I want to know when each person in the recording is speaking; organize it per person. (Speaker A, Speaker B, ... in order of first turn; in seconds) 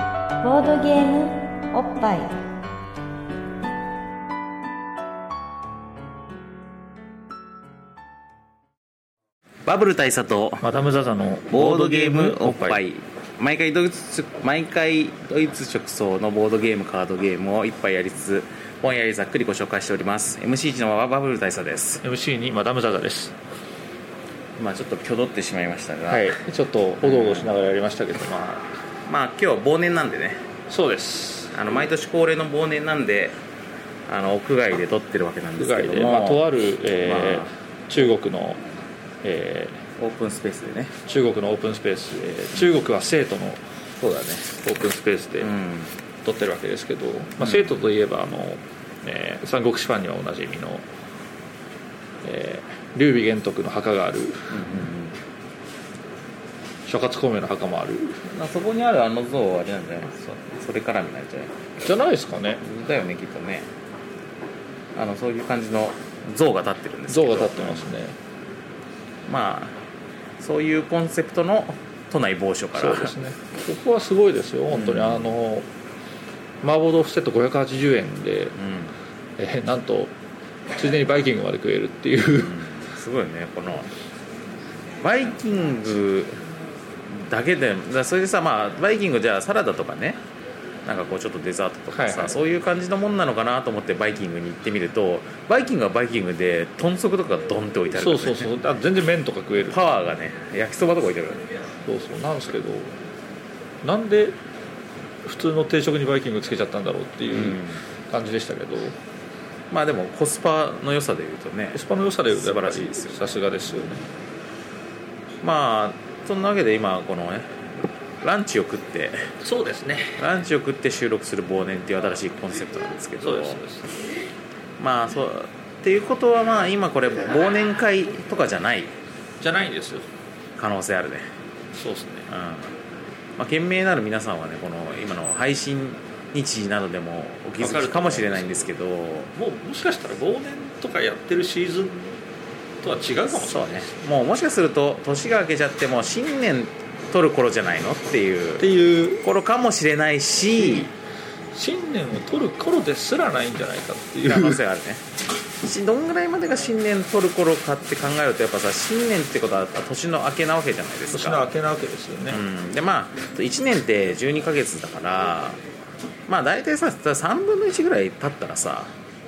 Speaker A: 0.4-2.3
Speaker B: 9.7-10.6, 11.5-22.0, 24.6-26.4, 27.0-27.6, 29.1-30.4, 31.5-33.4, 34.1-36.5, 37.0-37.5, 40.0-40.9, 44.0-44.5, 45.4-45.9, 47.4-47.7, 54.5-55.2, 58.2-61.8, 62.6-63.7, 64.9-67.9, 69.3-69.8, 70.4-73.1, 74.7-75.3, 78.6-78.9, 82.3-83.9, 85.0-86.4, 87.1-90.2, 90.8-98.5, 99.7-101.5, 107.3-107.8, 109.7-113.3, 115.4-117.7, 118.2-119.3, 120.2-123.6, 124.8-128.9, 130.6-131.3, 132.3-132.8, 133.4-139.3, 143.3-148.7, 149.2-150.9, 154.2-155.0, 155.6-161.5, 162.3-165.6, 166.3-168.9
Speaker C: 10.6-12.8, 22.0-23.3, 26.1-28.7, 30.7-31.5, 35.6-38.6, 39.2-39.8, 41.0-43.6, 44.6-45.5, 46.2-50.8, 52.2-54.6, 56.9-58.2, 61.8-62.6, 67.1-68.2, 72.7-75.7, 76.6-78.5, 79.4-80.1, 80.7-82.6, 91.9-92.3, 97.9-99.8, 101.8-102.9, 103.8-104.3, 105.2-109.0, 111.7-114.0, 119.4-120.2, 123.2-123.8, 129.4-130.1, 131.7-132.3, 137.6-138.7, 139.3-142.2, 142.8-144.0, 148.6-149.2, 150.6-150.9, 151.5-154.6, 161.1-162.4